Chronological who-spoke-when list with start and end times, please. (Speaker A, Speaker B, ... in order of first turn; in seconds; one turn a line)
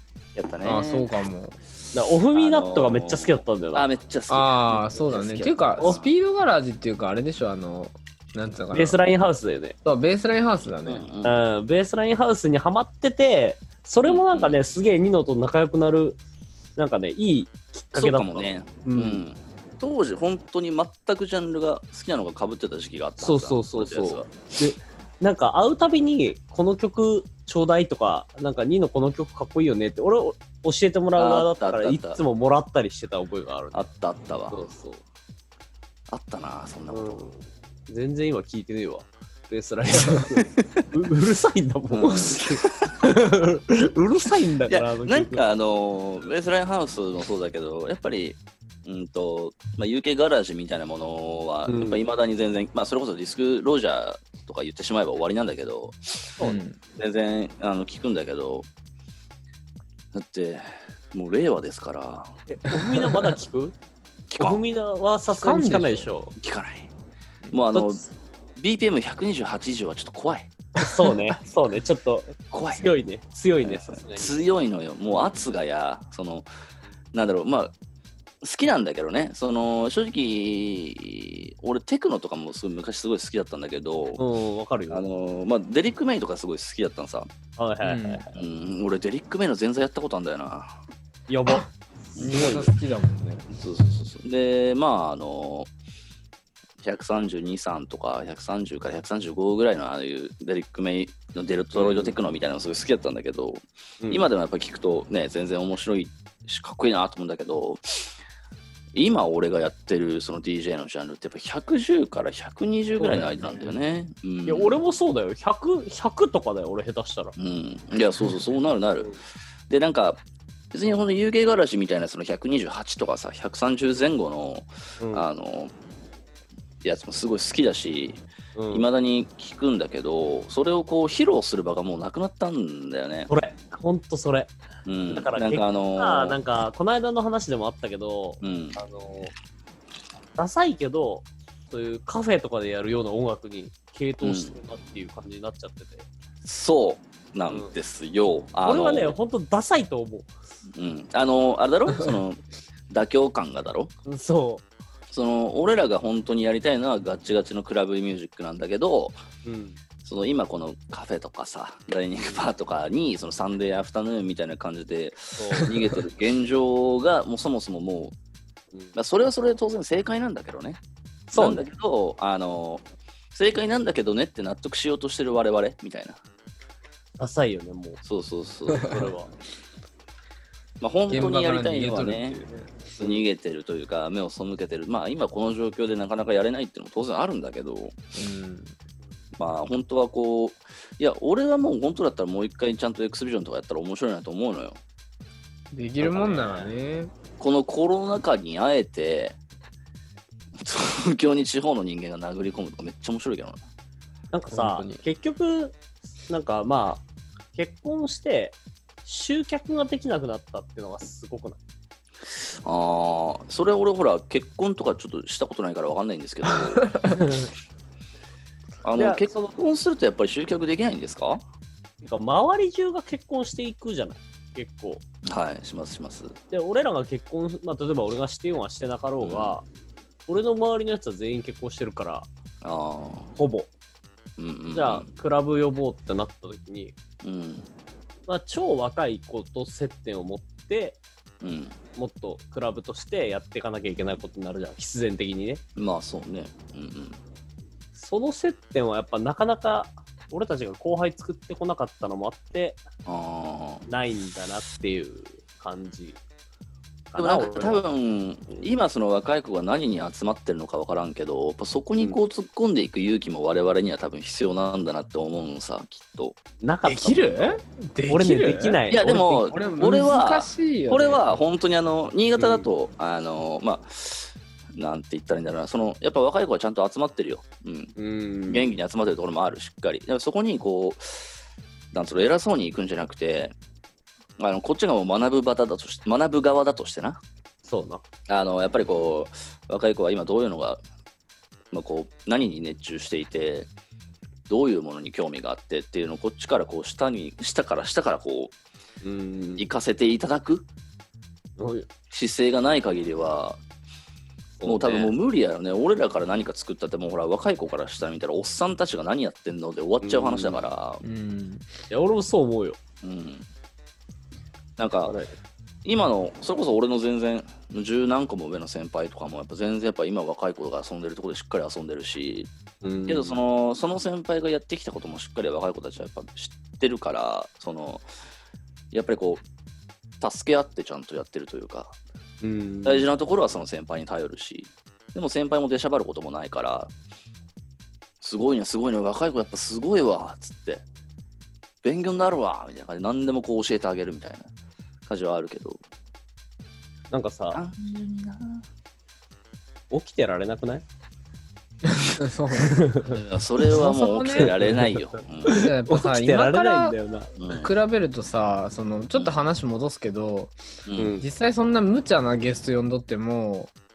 Speaker A: 0.3-1.1
Speaker B: 0.6-1.6
Speaker C: 1.9-3.9
Speaker A: 2.3-6.1
Speaker B: 4.3-9.0
Speaker C: 8.7-9.8
Speaker B: 9.8-11.0
Speaker A: 10.8-11.3
Speaker C: 11.2-16.2
Speaker A: 14.0-14.6
Speaker C: 16.8-19.2
Speaker A: 17.9-24.3
Speaker C: 23.2-33.9
Speaker A: 31.1-32.2
Speaker A: 33.7-34.7
Speaker C: 34.5-35.0
Speaker A: 36.1-37.2
Speaker C: 36.9-45.4
Speaker A: 41.9-43.0
Speaker A: 44.6-56.4
Speaker C: 51.7-52.0
Speaker B: 56.4-56.8
Speaker A: 56.9-58.7
Speaker A: 60.1-62.4
Speaker C: 62.5-63.7
Speaker A: 64.3-64.6
Speaker C: 64.4-66.3
Speaker B: 65.3-66.1
Speaker A: 66.3-66.9
Speaker A: 67.5-68.0
Speaker C: 67.7-68.0
Speaker A: 68.6-70.5
Speaker C: 70.8-74.4
Speaker A: 72.5-72.9
Speaker A: 73.6-76.5
Speaker A: 77.1-77.7
Speaker A: 78.4-84.2
Speaker C: 84.2-85.0
Speaker A: 84.9-87.3
Speaker C: 87.6-88.3
Speaker B: 87.8-88.2
Speaker A: 88.3-90.8
Speaker C: 91.3-92.7
Speaker A: 92.2-92.7
Speaker B: 92.2-93.5
Speaker A: 93.5-95.7
Speaker A: 96.8-108.1
Speaker C: 101.7-102.2
Speaker C: 104.0-104.3
Speaker A: 108.9-114.8
Speaker C: 113.0-113.7
Speaker C: 114.5-117.3
Speaker A: 117.4-119.1
Speaker A: 119.7-120.2
Speaker A: 120.7-125.7
Speaker C: 125.0-125.2
Speaker A: 126.8-133.3
Speaker C: 128.5-128.9
Speaker C: 133.3-134.5
Speaker A: 134.8-136.4
Speaker C: 135.1-139.3
Speaker A: 138.4-138.8
Speaker C: 140.3-146.1
Speaker A: 144.2-144.5
Speaker A: 146.4-149.2
Speaker C: 147.5-147.7
Speaker C: 148.6-150.3
Speaker A: 150.7-153.9
Speaker C: 154.1-154.6
Speaker A: 155.1-159.2
Speaker C: 159.4-159.8
Speaker A: 160.0-168.1
Speaker C: 165.4-166.0
Speaker A: 168.9-170.8
Speaker C: 171.3-171.6
Speaker A: 171.3-176.2
Speaker C: 177.2-178.0
Speaker A: 178.0-179.0
Speaker C: 178.8-179.3
Speaker A: 180.8-182.4
Speaker B: 181.1-182.8
Speaker A: 183.0-188.0
Speaker B: 188.2-188.7
Speaker A: 189.4-194.8
Speaker B: 195.7-197.1
Speaker C: 196.0-196.7
Speaker A: 197.4-199.4
Speaker A: 200.6-203.6
Speaker C: 204.3-205.8
Speaker B: 204.5-205.0
Speaker C: 206.3-207.0
Speaker C: 207.5-211.6
Speaker A: 212.6-216.9
Speaker B: 216.8-217.2
Speaker C: 217.1-217.5
Speaker A: 218.8-221.4
Speaker C: 219.0-219.4
Speaker C: 222.0-225.0
Speaker A: 225.2-226.3
Speaker C: 226.5-229.6
Speaker A: 229.2-229.6
Speaker C: 230.3-232.3
Speaker A: 232.6-233.3
Speaker C: 233.3-233.7
Speaker A: 234.4-235.1
Speaker C: 234.7-236.9
Speaker A: 237.2-237.7
Speaker C: 238.3-241.0
Speaker A: 241.4-241.8
Speaker C: 241.9-245.6
Speaker A: 245.8-247.2
Speaker C: 247.9-252.8
Speaker A: 253.1-253.8
Speaker C: 253.9-256.2
Speaker C: 257.1-257.8
Speaker A: 257.1-266.4
Speaker C: 266.6-269.5
Speaker B: 266.8-271.2
Speaker A: 268.9-277.9
Speaker C: 272.4-272.7
Speaker C: 278.0-278.7
Speaker A: 278.5-281.3
Speaker A: 281.9-283.5
Speaker A: 284.4-287.2
Speaker C: 287.6-288.0
Speaker A: 288.3-290.8
Speaker A: 291.7-293.7
Speaker A: 294.5-298.5
Speaker C: 299.0-299.7
Speaker A: 299.6-300.6
Speaker C: 301.6-301.9
Speaker A: 302.1-303.6
Speaker C: 304.6-305.1
Speaker A: 304.6-311.0
Speaker C: 310.0-310.6
Speaker B: 311.0-311.7
Speaker C: 311.9-312.8
Speaker A: 313.0-313.4
Speaker A: 314.8-315.1
Speaker C: 315.1-315.3
Speaker A: 315.8-322.5
Speaker C: 322.8-323.4
Speaker A: 323.1-328.1
Speaker A: 328.9-329.4
Speaker A: 330.2-331.9
Speaker C: 332.4-333.1
Speaker A: 332.8-336.9
Speaker A: 338.2-340.8
Speaker A: 341.8-344.5
Speaker A: 345.1-345.8
Speaker C: 347.1-347.6
Speaker A: 347.5-348.6
Speaker C: 349.9-350.8
Speaker B: 351.8-352.8
Speaker C: 352.5-353.2
Speaker A: 353.0-355.6
Speaker B: 353.6-354.7
Speaker C: 354.3-357.3
Speaker B: 355.5-356.9
Speaker A: 357.4-357.7
Speaker B: 357.5-360.5
Speaker A: 360.9-361.1
Speaker C: 361.0-361.2
Speaker B: 361.2-363.7